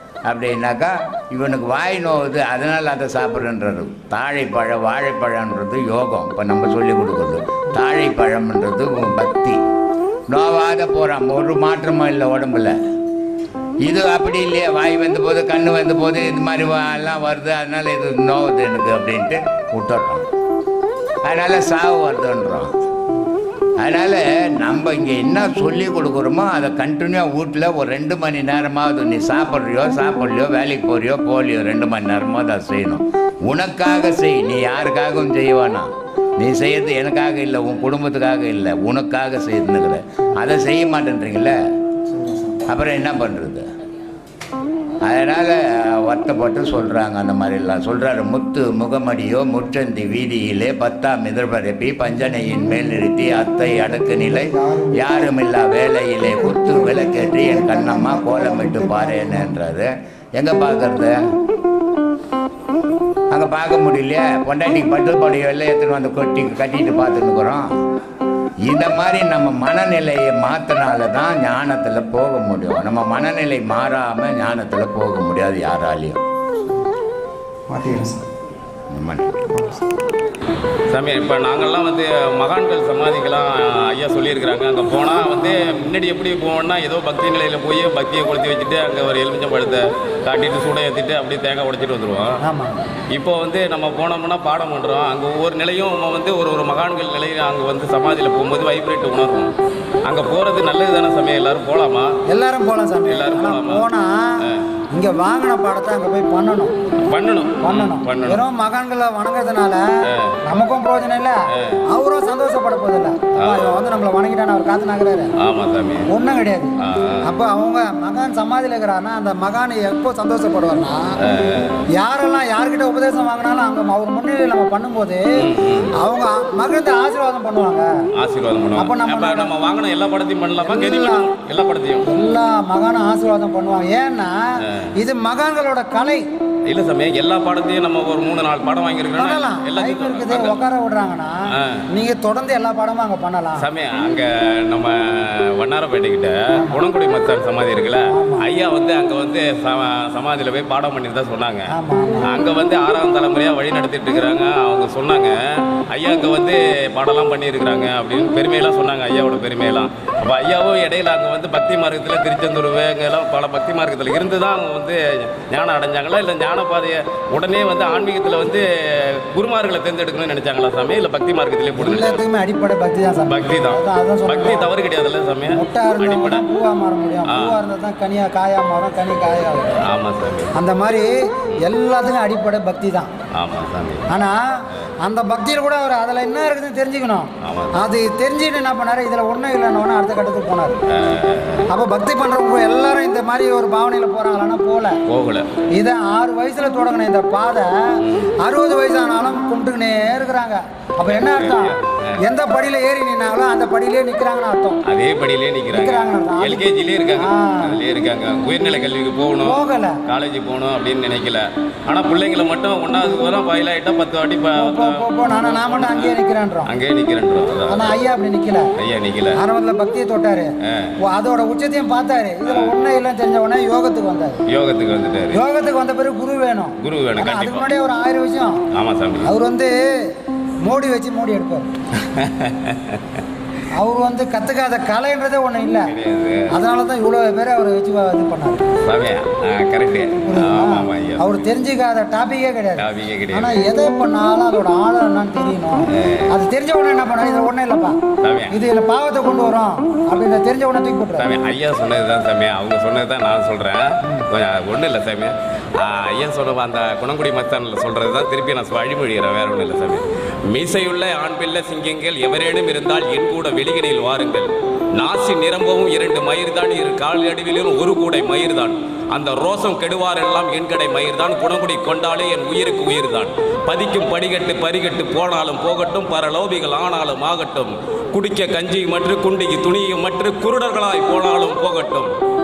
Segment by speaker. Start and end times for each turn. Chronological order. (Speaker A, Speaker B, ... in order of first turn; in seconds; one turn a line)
Speaker A: 0.2-9.6
Speaker A: 10.3-12.7
Speaker A: 13.8-20.2
Speaker A: 21.2-22.7
Speaker A: 23.8-41.5
Speaker B: 42.1-42.6
Speaker A: 42.7-43.6
Speaker A: 45.0-61.2
Speaker B: 52.4-55.4
Speaker B: 56.2-59.5
Speaker A: 63.3-67.7
Speaker A: 68.6-76.2
Speaker B: 77.7-78.2
Speaker A: 78.9-79.4
Speaker B: 79.5-79.8
Speaker C: 80.9-92.3
Speaker D: 85.1-85.7
Speaker D: 92.4-92.8
Speaker C: 93.1-99.5
Speaker C: 100.0-102.1
Speaker D: 102.3-106.7
Speaker C: 103.1-103.8
Speaker C: 107.1-108.4
Speaker D: 107.6-109.8
Speaker D: 110.4-111.4
Speaker D: 111.9-115.3
Speaker C: 113.4-113.8
Speaker C: 115.4-116.1
Speaker D: 116.0-121.3
Speaker C: 116.8-117.2
Speaker C: 121.2-121.8
Speaker D: 122.0-125.2
Speaker C: 125.4-125.9
Speaker D: 126.0-127.9
Speaker C: 128.2-132.0
Speaker D: 128.8-129.5
Speaker D: 130.6-131.3
Speaker D: 132.0-134.4
Speaker D: 135.0-136.2
Speaker C: 136.7-140.6
Speaker D: 139.2-143.7
Speaker C: 143.6-151.7
Speaker D: 146.5-146.8
Speaker D: 148.1-148.5
Speaker D: 151.7-152.3
Speaker C: 152.3-172.2
Speaker D: 171.8-174.7
Speaker C: 173.3-176.4
Speaker D: 175.5-179.8
Speaker C: 177.3-177.5
Speaker C: 179.9-180.5
Speaker D: 180.5-183.1
Speaker C: 183.3-184.1
Speaker D: 184.1-190.8
Speaker C: 187.4-187.8
Speaker C: 191.0-191.6
Speaker D: 191.7-195.0
Speaker C: 195.1-195.5
Speaker D: 195.7-197.7
Speaker D: 198.4-204.8
Speaker C: 201.1-202.1
Speaker C: 204.9-216.1
Speaker D: 205.7-206.6
Speaker D: 207.2-207.8
Speaker D: 209.4-210.0
Speaker D: 214.6-216.7
Speaker C: 216.7-217.9
Speaker D: 217.7-218.7
Speaker C: 218.8-219.4
Speaker D: 219.3-224.4
Speaker C: 224.5-225.4
Speaker D: 225.3-228.6
Speaker C: 226.8-227.7
Speaker C: 228.7-229.3
Speaker D: 229.2-229.8
Speaker D: 230.6-231.7
Speaker C: 232.0-233.2
Speaker D: 233.8-235.9
Speaker C: 235.9-236.4
Speaker D: 236.5-238.6
Speaker C: 238.9-241.4
Speaker D: 240.2-248.0
Speaker C: 242.8-243.6
Speaker C: 245.9-246.2
Speaker C: 248.2-248.5
Speaker D: 248.5-251.3
Speaker C: 251.2-282.1